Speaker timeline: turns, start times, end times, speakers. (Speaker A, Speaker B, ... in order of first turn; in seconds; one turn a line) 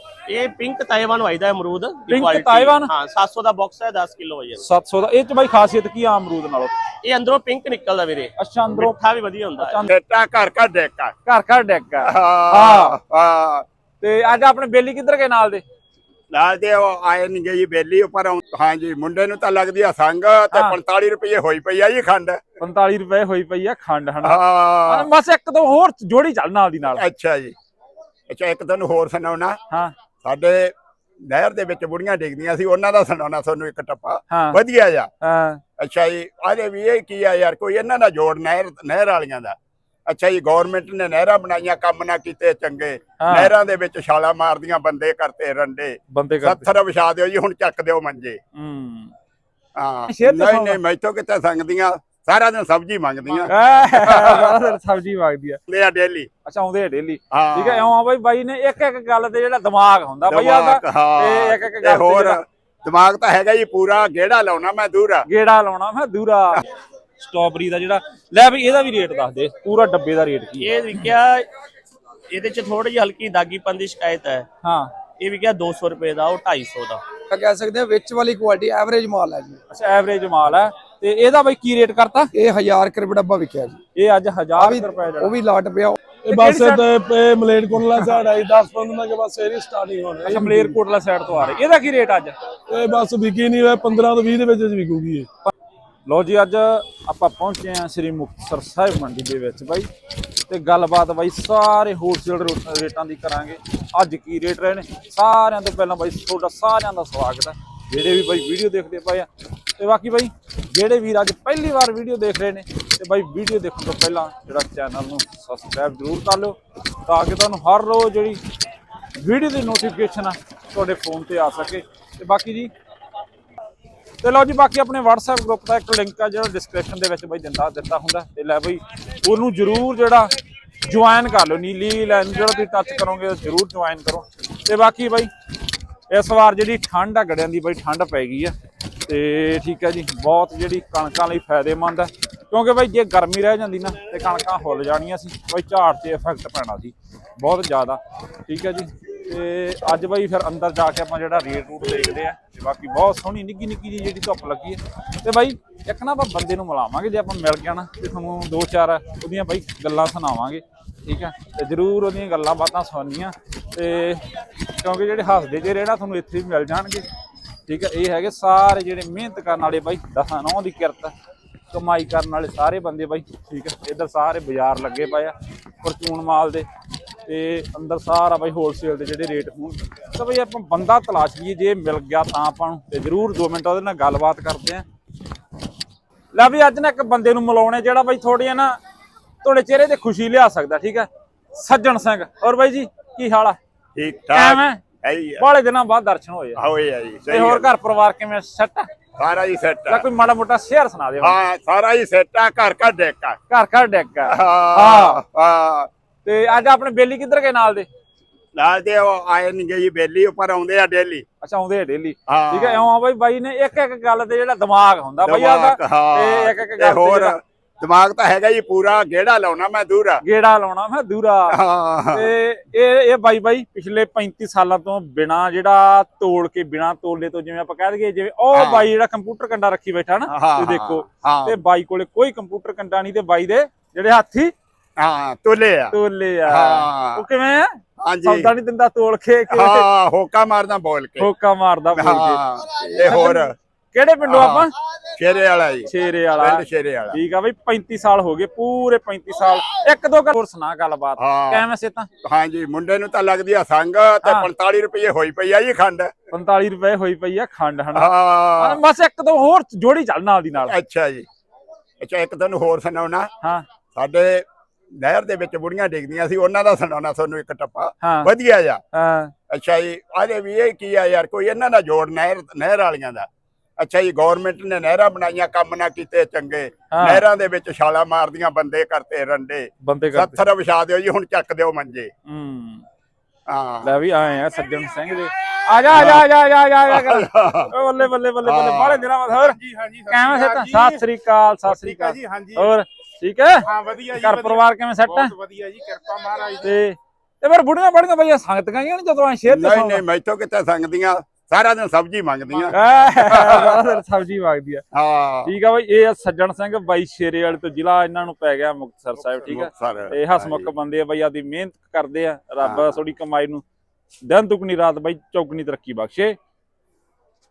Speaker A: 0.3-4.6
Speaker B: 2.1-2.9
Speaker B: 4.6-6.7
Speaker A: 7.0-9.8
Speaker B: 8.4-8.9
Speaker B: 9.6-9.9
Speaker C: 9.8-11.1
Speaker B: 11.2-12.9
Speaker C: 12.1-13.7
Speaker B: 14.0-15.6
Speaker C: 16.3-22.4
Speaker B: 20.5-20.8
Speaker B: 22.6-27.0
Speaker C: 24.2-25.1
Speaker C: 26.9-27.5
Speaker C: 28.3-29.6
Speaker C: 30.2-35.1
Speaker B: 34.3-34.6
Speaker B: 35.2-35.6
Speaker C: 35.8-39.5
Speaker C: 40.1-48.4
Speaker B: 43.2-43.5
Speaker B: 46.1-46.7
Speaker B: 48.5-49.1
Speaker C: 49.8-54.6
Speaker B: 50.1-50.8
Speaker B: 53.5-55.6
Speaker C: 55.7-56.3
Speaker B: 56.5-62.4
Speaker C: 57.3-57.9
Speaker C: 60.3-65.2
Speaker B: 65.3-66.6
Speaker B: 67.2-70.8
Speaker A: 70.6-71.5
Speaker A: 72.3-74.5
Speaker B: 74.6-74.9
Speaker A: 75.2-77.0
Speaker D: 77.3-79.6
Speaker B: 79.7-82.3
Speaker D: 82.3-83.8
Speaker B: 84.0-85.3
Speaker D: 84.6-86.0
Speaker E: 86.2-90.8
Speaker B: 86.3-86.9
Speaker B: 90.2-92.3
Speaker E: 92.7-95.3
Speaker B: 96.1-99.9
Speaker B: 100.5-118.4
Speaker B: 119.2-122.7
Speaker B: 124.2-130.3
Speaker B: 130.8-135.3
Speaker B: 136.1-138.5
Speaker B: 139.1-164.2
Speaker B: 164.8-167.0
Speaker B: 167.7-171.1
Speaker B: 171.7-176.7
Speaker B: 177.3-184.8
Speaker B: 186.3-188.8
Speaker B: 189.4-193.6
Speaker C: 193.9-195.4
Speaker B: 194.3-194.8
Speaker B: 195.4-196.6
Speaker C: 196.6-197.7
Speaker B: 197.3-198.9
Speaker C: 199.2-200.1
Speaker B: 199.9-201.3
Speaker C: 201.2-203.4
Speaker B: 203.5-205.2
Speaker C: 204.3-205.9
Speaker B: 206.2-207.9
Speaker C: 208.5-211.2
Speaker B: 211.4-217.3
Speaker C: 212.3-212.9
Speaker C: 215.2-220.2
Speaker B: 220.2-221.6
Speaker C: 221.5-222.3
Speaker B: 222.1-234.5
Speaker C: 228.5-228.9
Speaker C: 230.3-231.6
Speaker C: 235.0-236.0
Speaker B: 235.9-239.9
Speaker C: 236.5-237.2
Speaker C: 238.0-238.5
Speaker C: 239.5-241.3
Speaker B: 241.2-242.4
Speaker C: 241.9-243.5
Speaker B: 243.0-244.7
Speaker C: 244.3-247.2
Speaker B: 245.9-252.1
Speaker C: 251.2-251.7
Speaker C: 252.2-256.1
Speaker B: 254.2-254.5
Speaker B: 256.3-260.7
Speaker C: 257.9-258.8
Speaker C: 260.6-261.2
Speaker C: 262.0-263.3
Speaker C: 263.9-268.8
Speaker B: 268.0-268.3
Speaker B: 268.9-269.3
Speaker C: 269.5-273.3
Speaker C: 273.8-282.1
Speaker B: 276.9-277.2
Speaker B: 279.8-280.4
Speaker B: 282.2-282.8
Speaker C: 283.5-283.9
Speaker B: 283.8-295.4
Speaker C: 285.9-286.2
Speaker C: 286.9-287.7
Speaker C: 288.4-289.0
Speaker F: 289.6-290.9
Speaker F: 291.7-292.6
Speaker F: 293.7-294.6
Speaker F: 295.1-296.7
Speaker B: 296.6-300.0
Speaker C: 299.5-303.8
Speaker B: 302.7-304.9
Speaker C: 304.9-305.5
Speaker B: 305.4-313.6
Speaker C: 309.4-310.7
Speaker B: 314.2-316.4